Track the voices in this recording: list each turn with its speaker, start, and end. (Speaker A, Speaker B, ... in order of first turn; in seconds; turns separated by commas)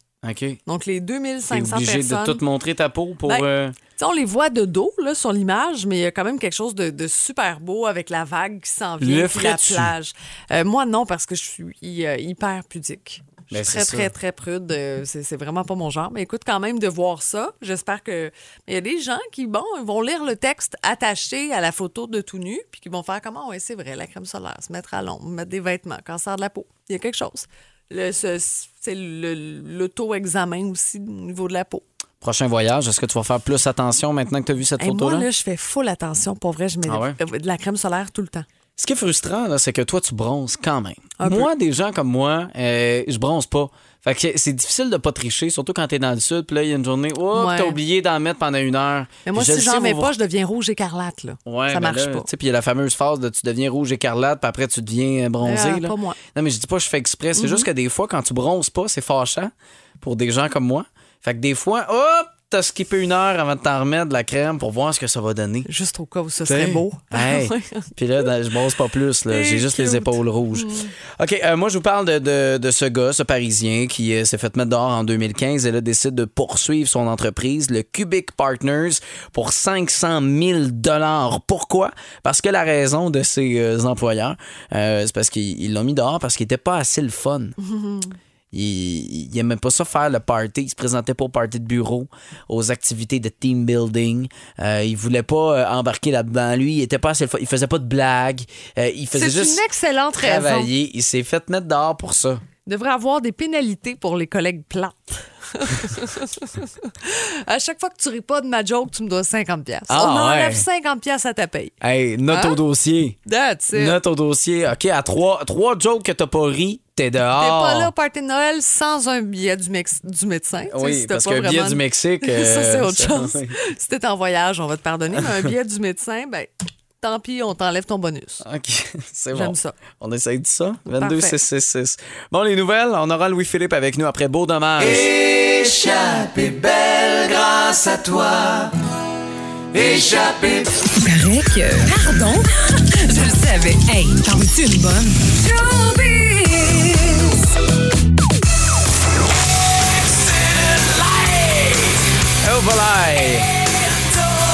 Speaker A: 0.2-0.6, Speaker B: 0.7-2.4, Speaker A: 1.5-3.8, Speaker B: 4.0-31.8, Speaker A: 9.0-9.9, Speaker A: 13.5-14.1, Speaker A: 32.2-35.3, Speaker B: 34.8-38.4, Speaker A: 36.9-37.2, Speaker A: 38.8-50.1, Speaker B: 41.2-41.5, Speaker B: 47.3-47.8, Speaker B: 49.2-52.3, Speaker A: 51.5-65.7, Speaker B: 55.4-56.2, Speaker B: 57.4-57.7, Speaker B: 65.7-67.9, Speaker A: 66.4-87.6, Speaker B: 69.3-70.9, Speaker B: 87.6-88.2, Speaker A: 88.5-99.6, Speaker B: 99.1-100.7, Speaker A: 100.1-102.4, Speaker B: 102.7-111.7, Speaker A: 109.9-110.6, Speaker A: 111.8-113.2, Speaker B: 112.3-112.6, Speaker B: 113.2-114.0, Speaker A: 113.7-117.9, Speaker B: 117.3-126.5, Speaker A: 120.7-123.5, Speaker A: 125.2-125.5, Speaker B: 127.0-128.4, Speaker A: 128.4-135.1, Speaker B: 129.3-129.8, Speaker B: 130.9-131.3, Speaker C: 134.8-138.7, Speaker C: 139.7-140.8, Speaker D: 141.0-145.3, Speaker B: 141.6-142.2, Speaker B: 145.3-147.1, Speaker C: 150.7-151.7, Speaker A: 152.4-153.5